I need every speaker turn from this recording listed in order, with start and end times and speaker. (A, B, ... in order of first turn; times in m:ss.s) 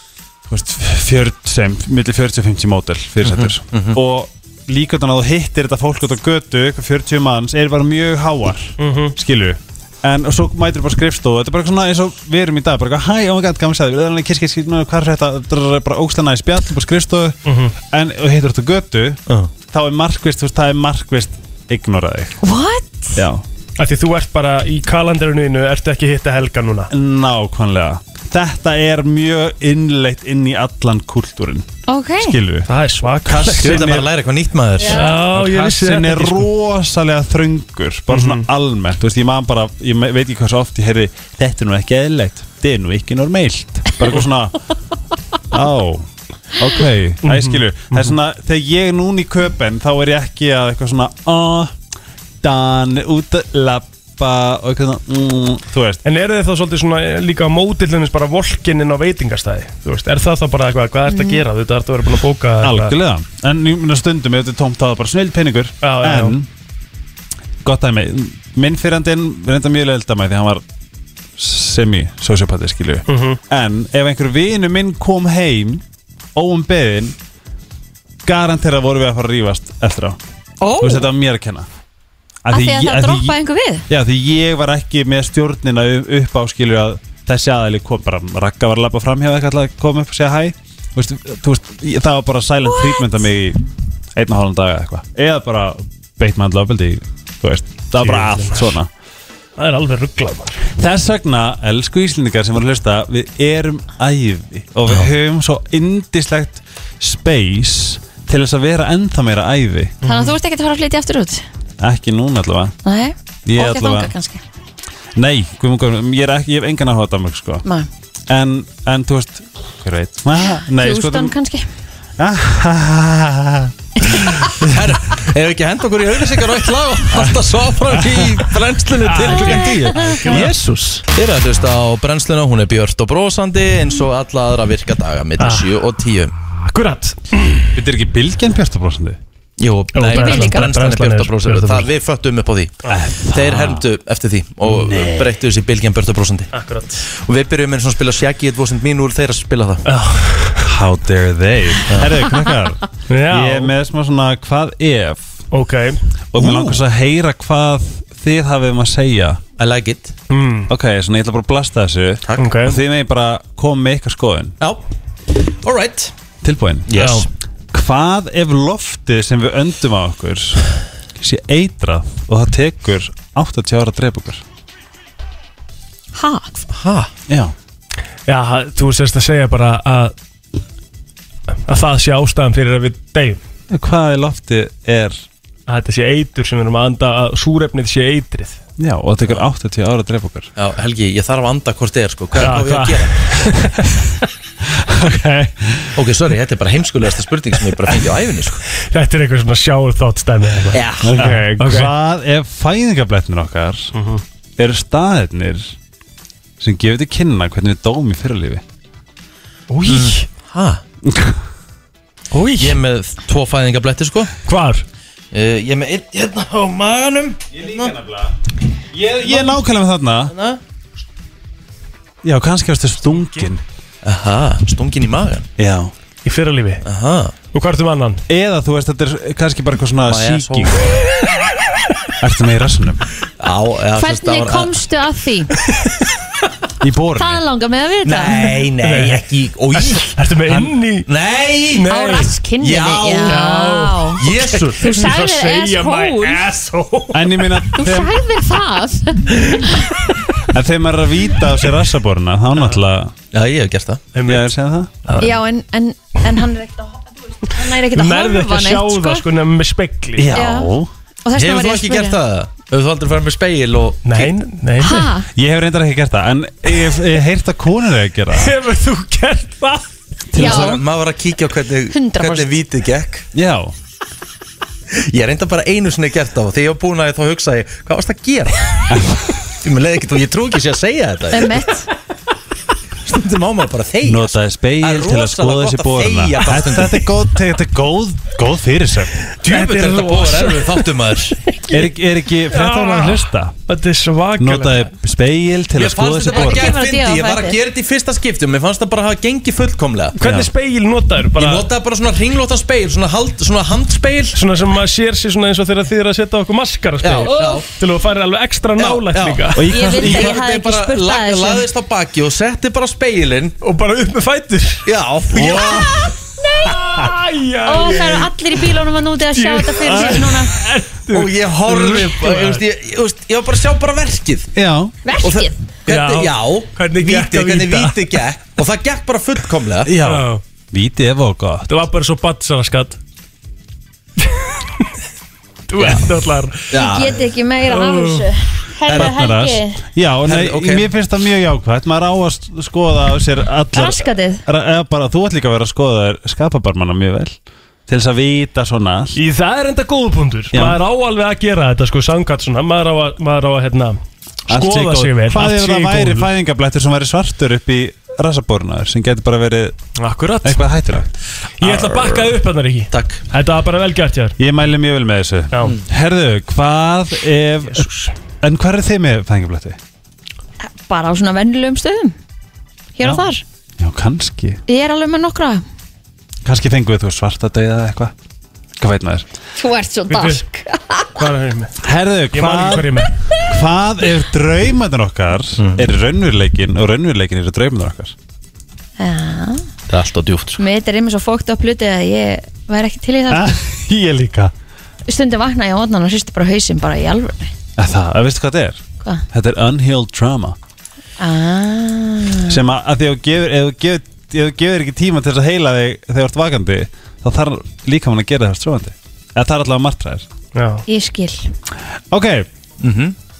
0:00.5-0:22.4 A
0:03.2-0:04.0 B
0:08.8-0:09.2 C
0:17.4-0:17.7 C
0:22.4-0:23.2 D
0:23.1-0:23.4 A
0:23.8-0:26.9 C
0:26.9-0:31.7 A
0:31.9-0:32.4 D
0:32.2-0:32.7 A
0:32.7-0:34.0 C
0:33.2-0:34.1 A
0:33.6-0:35.1 B
0:34.9-0:36.5 C
0:35.2-0:44.6 A
0:38.1-0:38.4 C
0:45.5-0:51.7 A
0:47.2-0:48.1 C
0:52.4-0:56.0 A
0:56.0-1:02.9 C
1:01.1-1:01.4 D
1:02.6-1:06.5 A
1:05.8-1:06.4 C
1:07.6-1:10.6 A
1:11.4-1:15.8 A
1:13.1-1:13.4 C
1:16.3-1:17.1 A
1:18.2-1:20.2 A
1:20.6-1:21.1 D
1:20.8-1:21.7 A
1:22.4-1:23.4 A
1:22.5-1:23.8 D
1:23.9-1:33.6 A
1:32.6-1:33.0 D
1:34.2-1:38.9 A
1:38.0-1:38.8 C
1:39.6-1:40.6 C
1:40.8-1:49.9 A
1:50.0-1:50.4 C
1:50.0-1:51.4 D
1:51.8-1:52.8 A
1:52.8-1:54.4 D
1:53.4-1:54.1 A
1:55.2-1:57.6 A
1:58.3-2:01.3 A
2:00.7-2:01.6 D
2:02.2-2:03.7 A
2:04.5-2:16.3 B
2:07.1-2:08.4 A
2:09.0-2:10.5 C
2:09.5-2:09.9 D
2:15.4-2:15.7 C
2:16.6-2:17.7 C
2:17.7-2:19.2 A
2:19.6-2:29.8 B
2:19.9-2:21.9 C
2:20.1-2:20.7 D
2:22.9-2:23.8 A
2:24.6-2:25.3 A
2:26.5-2:27.0 C
2:29.8-2:30.6 C
2:30.6-2:35.3 A
2:31.9-2:32.1 B
2:33.1-2:33.7 C
2:35.5-2:36.0 C
2:36.3-2:39.4 A
2:36.4-2:36.8 B
2:39.6-2:40.1 B
2:40.3-2:40.7 C
2:40.7-2:44.5 A
2:42.2-2:42.6 B
2:42.4-2:42.8 C
2:45.4-2:46.1 B
2:46.4-2:46.9 A
2:46.9-2:47.3 B
2:46.9-2:47.2 C
2:47.7-2:54.4 A
2:56.1-2:56.5 D
2:56.7-2:57.1 B
2:57.3-2:57.5 A
2:58.3-3:00.1 C
3:01.6-3:03.4 C
3:03.7-3:05.2 A
3:05.7-3:08.6 C
3:08.8-3:10.5 A
3:10.6-3:13.5 B
3:12.4-3:13.9 C
3:14.8-3:16.0 A
3:15.9-3:18.6 B
3:18.8-3:21.9 C
3:20.7-3:21.2 B
3:21.0-3:23.9 A
3:23.9-3:24.2 C
3:24.6-3:25.7 A
3:26.6-3:28.6 A
3:29.7-3:30.2 C
3:29.8-3:30.8 B
3:31.0-3:31.4 A
3:32.3-3:32.8 C
3:32.6-3:34.3 B
3:34.4-3:34.8 C
3:35.3-3:38.0 B
3:37.5-3:38.4 A
3:38.9-3:40.3 A
3:40.3-3:40.6 B
3:42.2-3:43.6 A
3:43.0-3:43.5 C
3:44.0-3:45.5 B
3:45.6-3:45.9 A
3:46.2-3:46.8 C
3:46.8-3:47.3 B
3:47.5-3:48.2 C
3:48.3-3:50.8 A
3:50.0-3:51.0 B
3:52.2-3:53.0 A
3:53.4-3:54.7 B
3:53.9-3:55.5 D
3:56.8-3:57.4 A
3:57.2-3:58.4 D
3:58.0-4:00.1 B
3:58.8-4:01.1 C
4:01.0-4:02.0 B
4:01.7-4:02.3 C
4:01.9-4:04.2 D
4:02.6-4:03.5 B
4:03.2-4:07.6 C
4:04.2-4:05.0 B
4:04.8-4:06.4 D
4:07.1-4:08.1 A
4:07.8-4:09.7 D
4:09.4-4:09.9 C
4:10.5-4:13.1 A
4:13.3-4:14.1 B
4:14.1-4:14.5 C
4:14.2-4:14.9 A
4:15.0-4:15.4 C
4:15.2-4:19.2 D
4:17.9-4:20.3 C
4:20.2-4:20.9 A
4:20.3-4:20.7 D
4:21.2-4:22.2 D
4:21.3-4:24.3 B
4:24.0-4:25.1 C
4:24.8-4:25.2 D
4:25.3-4:28.5 A
4:28.3-4:29.9 C
4:30.3-4:30.8 A
4:30.4-4:30.8 D
4:30.4-4:33.2 B
4:31.9-4:32.5 D
4:33.3-4:33.7 A
4:34.9-4:38.9 B
4:38.9-4:39.3 A
4:39.6-4:41.6 B
4:41.3-4:41.9 D
4:43.0-4:47.1 B
4:44.0-4:49.2 A
4:49.4-4:51.4 B
4:49.4-4:51.9 C
4:51.7-4:53.5 A
4:52.5-4:54.9 C
4:54.4-4:56.8 A
4:55.7-5:00.2 B
4:56.3-4:57.6 D
5:00.2-5:01.7 C
5:00.2-5:00.5 A
5:01.4-5:04.4 B
5:04.3-5:09.6 C
5:07.0-5:07.6 B
5:07.2-5:07.6 D
5:08.8-5:13.6 B
5:09.5-5:10.4 A
5:09.7-5:11.6 D
5:13.6-5:14.9 C
5:14.8-5:15.9 B
5:15.3-5:16.1 A
5:15.7-5:16.1 D
5:16.6-5:18.3 C
5:16.7-5:17.1 A
5:17.6-5:20.5 D
5:19.3-5:22.6 C
5:19.8-5:20.4 A
5:21.1-5:24.5 B
5:24.5-5:24.9 A
5:25.0-5:25.6 D
5:25.2-5:29.9 B
5:25.9-5:28.2 C
5:29.8-5:31.7 A
5:30.0-5:30.4 C
5:31.7-5:33.0 C
5:34.2-5:34.6 C
5:35.7-5:36.8 C
5:36.7-5:37.2 B
5:36.7-5:39.8 D
5:37.7-5:38.3 C
5:38.9-5:39.2 B
5:38.9-5:49.2 A
5:40.2-5:40.9 B
5:43.7-5:44.4 D
5:49.1-5:54.0 C
5:50.5-5:50.8 A
5:54.5-5:56.3 C
5:54.5-5:59.8 A
6:00.0-6:00.8 C
6:00.4-6:01.1 A
6:01.6-6:04.4 C
6:01.6-6:02.3 A
6:02.9-6:03.2 B
6:04.4-6:07.9 A
6:07.6-6:08.1 C
6:08.4-6:09.8 A
6:10.6-6:12.1 D
6:13.0-6:13.4 D
6:13.8-6:14.6 A
6:14.7-6:15.6 D
6:16.4-6:18.1 A
6:18.8-6:19.3 A
6:19.6-6:21.2 D
6:20.1-6:20.4 C
6:21.1-6:21.7 C
6:21.8-6:28.1 A
6:22.3-6:23.1 C
6:25.6-6:25.8 B
6:29.0-6:29.6 D
6:29.9-6:30.6 B
6:30.6-6:33.5 D
6:33.3-6:34.5 A
6:35.1-6:37.5 D
6:37.8-6:40.6 A
6:41.2-6:42.6 D
6:42.5-6:50.2 A
6:50.5-6:50.8 C
6:50.9-6:51.5 D
6:52.1-6:52.5 A
6:52.8-6:53.2 B